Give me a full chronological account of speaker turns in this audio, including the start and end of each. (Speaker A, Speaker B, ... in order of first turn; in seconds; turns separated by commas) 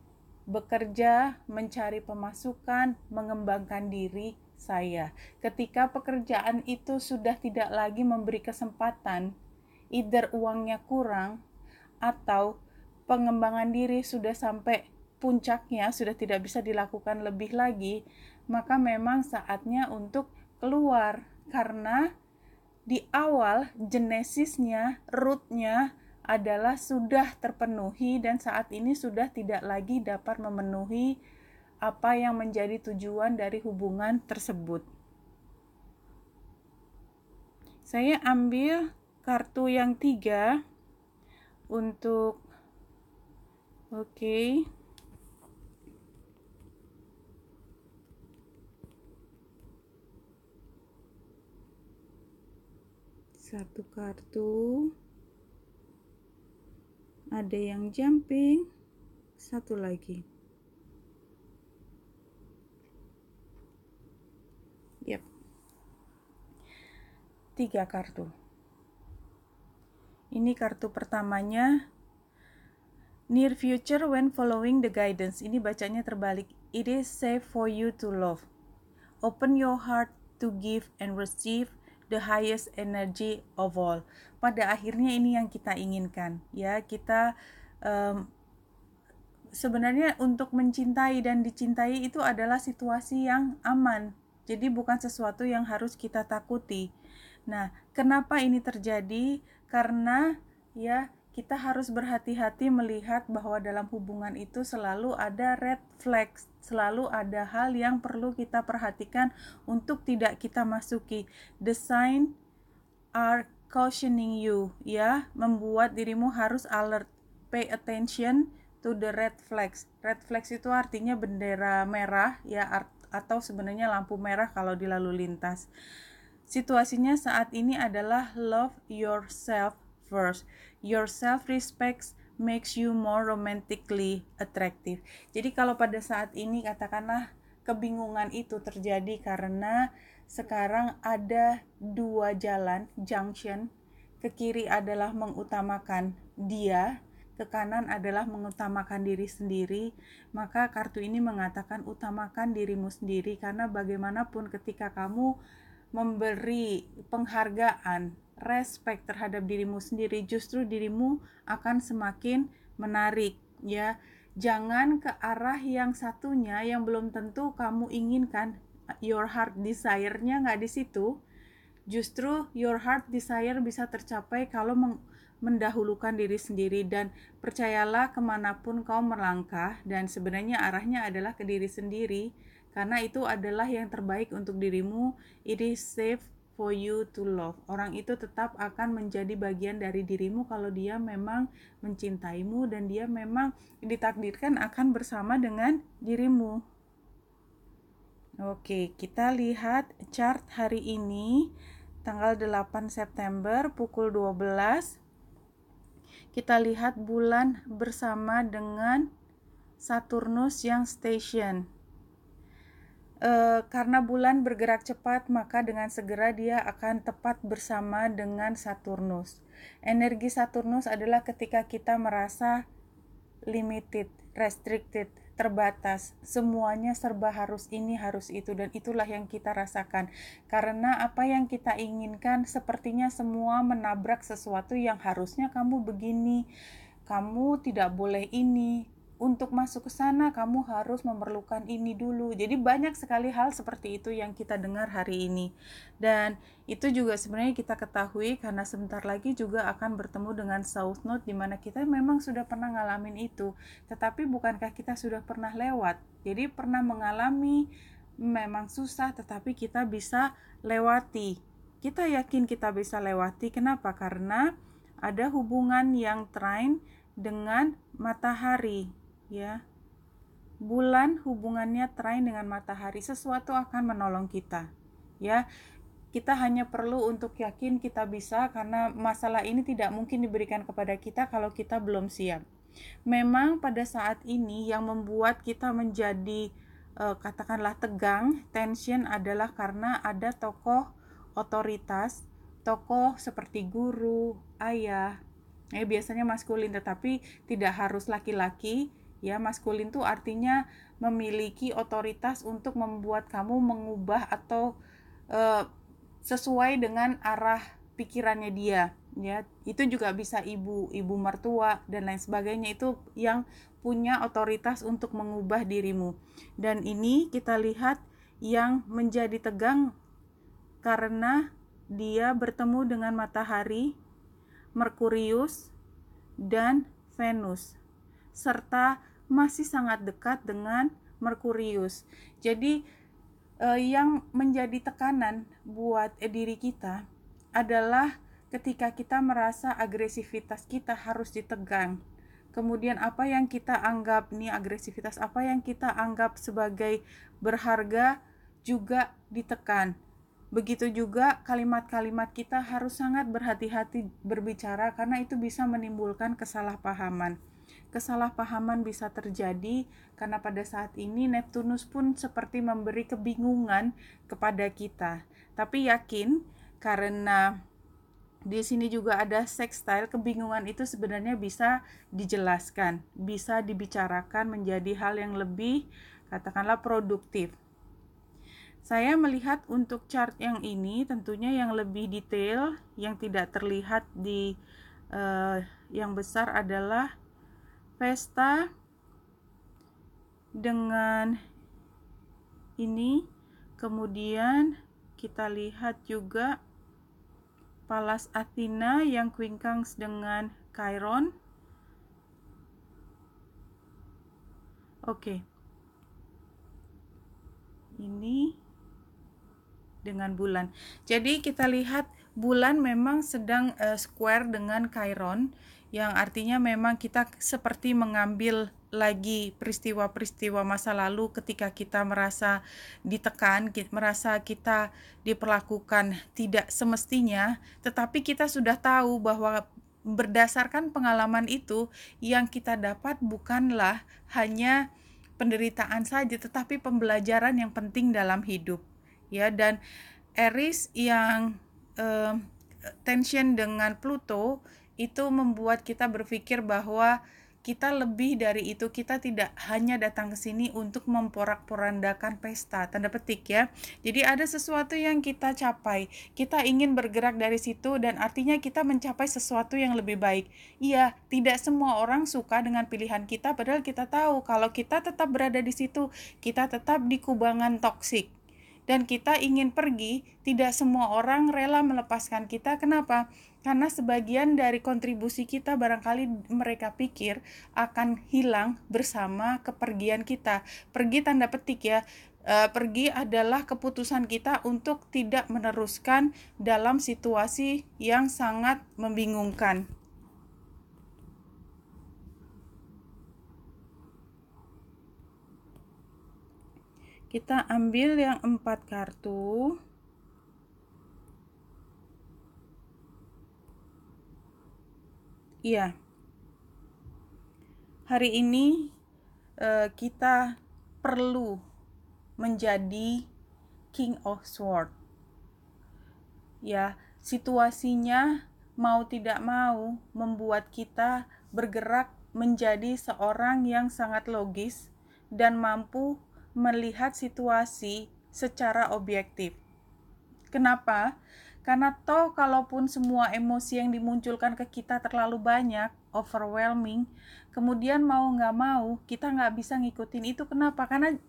Speaker A: 0.5-9.3, Speaker A: 9.9-11.4, Speaker A: 12.1-12.5, Speaker A: 13.1-18.0, Speaker A: 18.5-22.0, Speaker A: 22.9-31.1, Speaker A: 31.8-34.8, Speaker A: 37.9-40.6, Speaker A: 41.7-42.4, Speaker A: 43.9-44.6, Speaker A: 53.4-54.9, Speaker A: 57.3-58.7, Speaker A: 59.4-60.2, Speaker A: 67.5-68.3, Speaker A: 70.3-71.7, Speaker A: 73.3-78.4, Speaker A: 79.2-87.3, Speaker A: 87.8-88.2, Speaker A: 89.6-96.9, Speaker A: 97.5-100.2, Speaker A: 100.8-112.3, Speaker A: 113.2-125.7, Speaker A: 126.5-143.7, Speaker A: 144.2-155.3, Speaker A: 155.9-171.1, Speaker A: 171.9-196.6, Speaker A: 198.4-201.5, Speaker A: 202.0-205.0, Speaker A: 206.3-209.1, Speaker A: 209.8-211.7, Speaker A: 213.2-222.6, Speaker A: 223.5-236.4, Speaker A: 237.1-245.5, Speaker A: 246.0-257.7, Speaker A: 258.2-264.5, Speaker A: 265.0-269.6, Speaker A: 270.6-274.7, Speaker A: 276.1-282.4, Speaker A: 283.1-286.4, Speaker A: 287.0-290.9, Speaker A: 291.4-295.2, Speaker A: 295.8-304.7, Speaker A: 305.3-305.7, Speaker A: 306.2-319.9, Speaker A: 320.8-323.9, Speaker A: 324.8-325.7, Speaker A: 326.4-327.8, Speaker A: 328.3-332.8, Speaker A: 333.6-337.0, Speaker A: 337.6-342.0, Speaker A: 342.5-348.1, Speaker A: 348.6-349.9, Speaker A: 350.5-357.4, Speaker A: 357.9-367.5, Speaker A: 368.5-377.6, Speaker A: 378.8-384.6, Speaker A: 385.1-387.1, Speaker A: 388.0-388.7, Speaker A: 390.6-391.4, Speaker A: 392.8-393.3, Speaker A: 393.8-396.6, Speaker A: 397.9-401.3, Speaker A: 405.1-405.4, Speaker A: 408.0-408.6, Speaker A: 410.0-434.8, Speaker A: 435.4-439.8, Speaker A: 440.4-442.4, Speaker A: 443.0-468.3, Speaker A: 468.9-489.8, Speaker A: 497.3-499.8, Speaker A: 505.6-505.9, Speaker A: 508.1-508.9, Speaker A: 509.6-511.6, Speaker A: 512.4-513.3, Speaker A: 513.9-514.9, Speaker A: 516.7-518.3, Speaker A: 518.8-529.6, Speaker A: 530.5-531.0, Speaker A: 531.6-541.1